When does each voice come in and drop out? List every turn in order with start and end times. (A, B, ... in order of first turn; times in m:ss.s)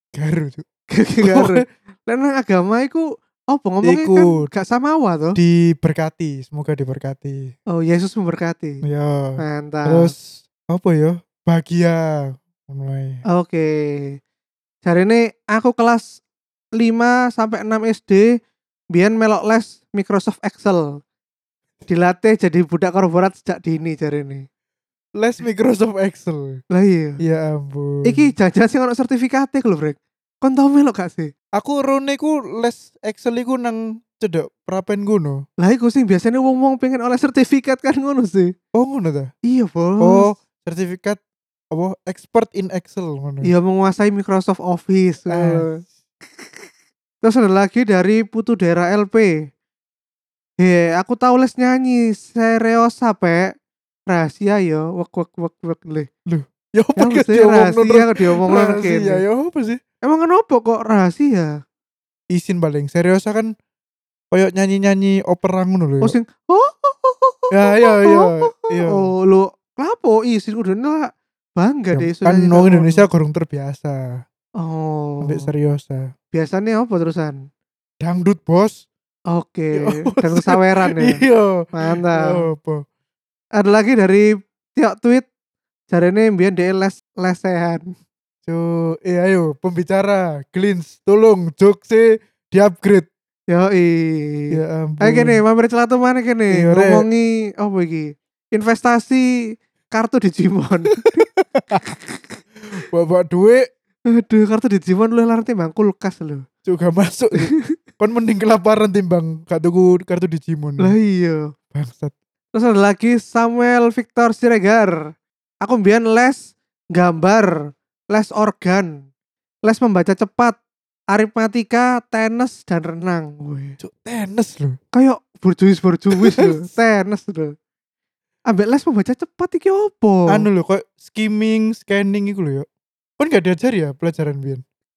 0:00.2-0:00.7 A
0:00.9-0:05.4 B
0:01.2-0:01.6 A
0:03.8-0:04.5 A
0:05.4-0:07.5 A
0:07.7-0:08.8 B
0:08.8-0:13.2 A
0:09.4-0:10.1 B
0:13.3-0:14.2 B
0:14.8-0:16.1 B
0:16.8-0:18.3 B
0:18.9-0:21.0 B
0:21.9-0:24.4 B
0:25.2-0:26.6 A
0:26.7-0:27.2 B
0:27.2-0:28.3 A
0:28.0-0:31.3 B
0:31.6-0:35.4 A
0:35.6-0:38.5 B
0:38.7-0:39.3 A
0:39.5-0:40.3 B
0:40.0-0:41.2 A
0:41.7-0:43.5 A
0:43.4-0:45.8 B
0:45.3-0:45.9 A
0:47.2-0:49.3 B
0:50.6-0:53.5 B
0:54.1-0:56.1 B
0:56.3-0:59.8 A
0:57.0-0:59.2 B
1:00.0-1:01.6 B
1:02.3-1:03.5 A
1:04.3-1:06.2 A
1:06.0-1:13.0 B
1:07.5-1:09.1 A
1:11.9-1:14.2 A
1:14.6-1:15.5 B
1:15.2-1:16.1 A
1:16.3-1:17.4 B
1:18.0-1:18.8 A
1:19.3-1:21.2 B
1:19.8-1:22.8 A
1:21.8-1:22.4 B
1:23.6-1:25.2 B
1:25.9-1:27.9 B
1:28.4-1:33.1 A
1:33.5-1:39.3 B
1:34.5-1:35.4 A
1:36.5-1:37.1 A
1:39.9-1:42.4 B
1:41.6-1:41.9 A
1:42.6-1:43.7 A
1:44.1-1:46.4 B
1:46.7-1:51.0 A
1:47.4-1:47.8 B
1:50.8-1:51.5 B
1:51.7-1:52.2 A
1:52.5-1:55.0 B
1:55.6-1:57.6 B
1:58.1-1:59.0 B
1:59.6-2:00.6 B
2:01.1-2:03.8 B
2:03.8-2:04.8 A
2:04.9-2:07.6 B
2:06.1-2:06.6 A
2:08.5-2:10.4 B
2:10.3-2:12.7 A
2:13.2-2:14.6 A